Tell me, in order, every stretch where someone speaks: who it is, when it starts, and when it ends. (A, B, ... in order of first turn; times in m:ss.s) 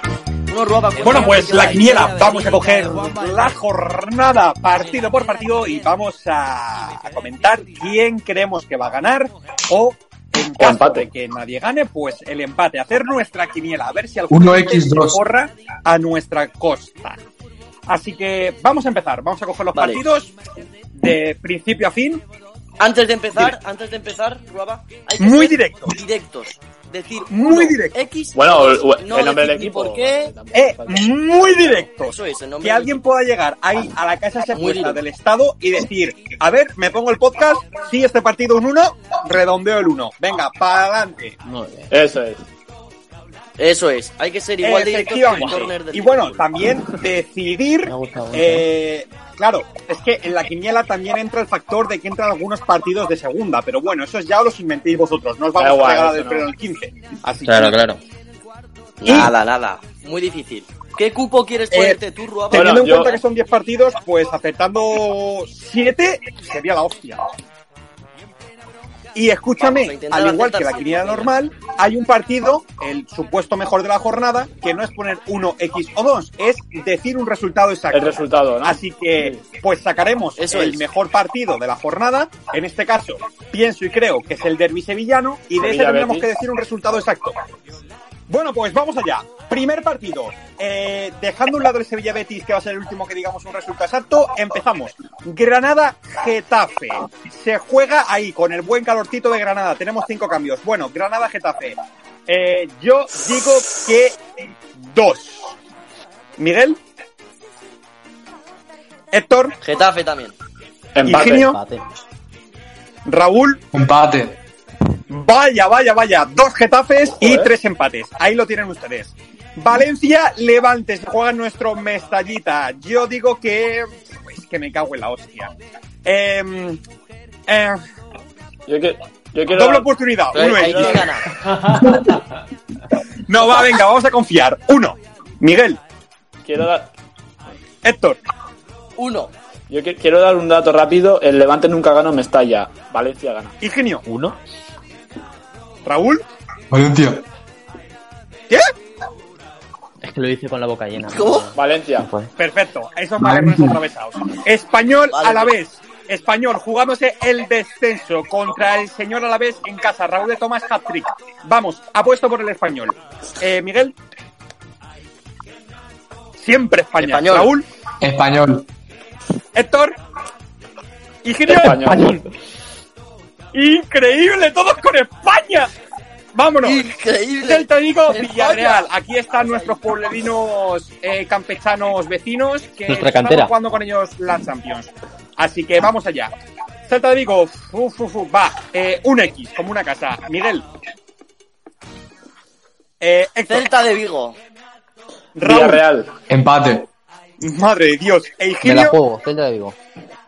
0:00.5-0:03.6 A
0:01.0-0:17.2 B
0:10.6-0:11.1 C
0:14.3-0:15.2 D
0:17.9-0:20.3 B
0:19.7-0:20.0 A
0:20.9-0:22.2 B
0:22.8-0:30.3 A
0:25.2-0:26.0 B
0:27.3-0:28.0 B
0:28.4-0:31.8 C
0:30.5-0:41.4 B
0:32.0-0:33.0 A
0:34.5-0:35.0 A
0:41.4-0:41.9 E
0:41.9-0:42.5 C
0:43.6-0:46.5 A
0:44.6-0:57.8 B
0:47.9-0:48.7 E
0:55.6-0:56.5 C
0:57.4-0:58.0 E
0:59.0-1:03.2 A
0:59.0-0:59.3 B
1:01.7-1:02.0 B
1:02.5-1:07.2 B
1:02.5-1:03.2 C
1:09.2-1:27.4 B
1:09.6-1:11.4 A
1:17.9-1:19.4 C
1:20.4-1:20.9 A
1:25.6-1:26.3 C
1:28.3-1:44.2 B
1:44.7-1:45.5 B
1:46.4-1:46.8 B
1:49.1-1:49.6 B
1:49.6-1:50.4 A
1:51.0-1:51.5 C
1:51.0-1:51.6 B
1:51.3-1:51.8 E
1:53.1-1:53.6 B
1:53.7-1:54.4 D
1:55.1-2:05.5 B
1:57.1-1:57.5 C
2:06.0-2:06.8 B
2:07.5-2:07.8 B
2:08.7-2:09.9 C
2:09.5-2:11.1 B
2:10.3-2:11.3 A
2:10.6-2:11.1 C
2:13.3-2:15.8 B
2:16.4-2:16.9 C
2:17.8-2:18.2 B
2:19.0-2:19.3 A
2:19.7-2:23.6 C
2:23.6-2:24.0 B
2:24.1-2:24.4 E
2:25.8-2:26.2 B
2:26.7-2:27.2 D
2:30.0-2:32.3 E
2:31.1-2:31.5 A
2:31.6-2:32.1 C
2:32.4-2:44.0 B
2:33.2-2:33.8 D
2:35.1-2:35.6 A
2:46.4-2:47.7 B
2:47.0-2:47.5 A
2:48.0-2:48.7 D
2:49.6-2:50.0 B
2:51.2-2:52.1 B
2:51.5-2:52.2 C
2:51.9-2:52.3 E
2:53.5-2:55.7 B
2:56.3-2:56.9 B
2:56.6-2:59.9 A
2:57.4-3:06.3 B
3:02.9-3:03.5 E
3:06.9-3:10.7 B
3:13.0-3:13.7 B
3:13.5-3:14.4 A
3:15.4-3:15.8 B
3:15.4-3:16.1 C
3:16.3-3:16.9 D
3:17.4-3:19.0 B
3:18.6-3:19.8 E